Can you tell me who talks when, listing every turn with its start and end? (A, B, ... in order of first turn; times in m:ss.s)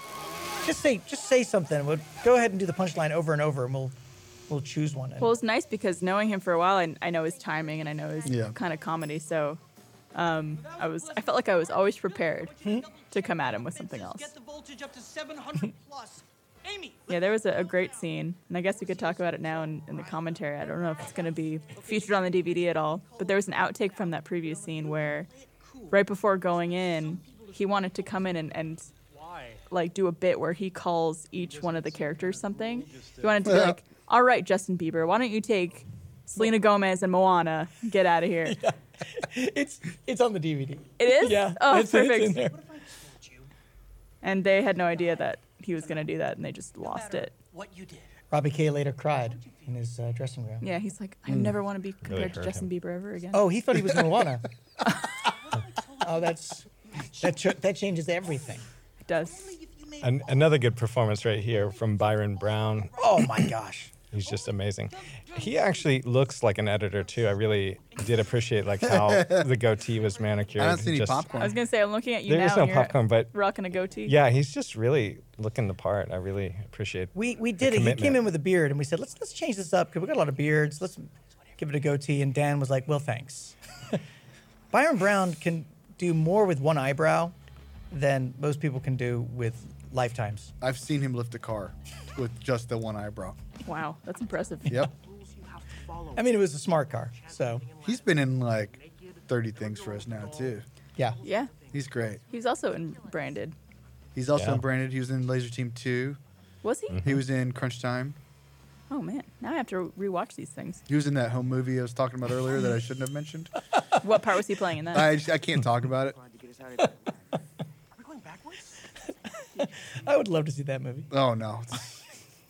0:00.6-0:03.9 A
0:04.5-0:05.3 A
0:05.2-0:09.6 B
0:08.2-0:08.6 C
0:10.1-0:14.3 B
0:12.6-0:12.9 A
0:12.8-0:13.2 D
0:13.8-0:17.1 D
0:17.1-0:25.3 B
0:24.8-0:25.9 D
0:25.9-0:28.9 B
0:29.7-0:38.6 B
0:32.4-0:33.2 D
0:33.4-0:33.8 C
0:38.4-0:42.6 A
0:41.0-0:42.4 B
0:42.5-0:43.5 D
0:44.2-0:47.3 B
0:46.8-0:48.1 D
0:48.3-0:50.7 A
0:50.6-0:53.5 B
0:51.3-0:51.6 C
0:52.0-0:52.7 E
0:53.3-0:54.5 A
0:55.5-0:56.3 D
0:56.0-0:58.6 A
0:59.1-0:59.5 B
0:59.5-1:00.1 D
1:00.0-1:03.4 E
1:03.0-1:03.9 A
1:04.1-1:11.4 E
1:08.8-1:09.5 C
1:10.6-1:11.6 C
1:11.4-1:14.2 B
1:12.3-1:13.3 E
1:14.1-1:18.2 E
1:17.1-1:24.0 A
1:24.7-1:27.3 A
1:27.9-1:30.5 A
1:30.6-1:33.4 C
1:33.6-1:34.8 B
1:34.6-1:34.9 C
1:34.9-1:36.4 D
1:36.1-1:37.6 A
1:37.2-1:38.0 D
1:37.8-1:40.6 C
1:41.2-1:41.5 B
1:41.7-1:42.2 C
1:42.3-1:43.6 B
1:44.1-1:46.2 C
1:46.6-1:47.1 B
1:47.0-1:48.2 C
1:48.9-1:50.8 B
1:50.9-1:53.5 C
1:54.0-1:55.2 B
1:54.9-1:56.2 C
1:57.9-1:58.8 D
1:59.5-2:01.1 A
2:01.1-2:02.1 C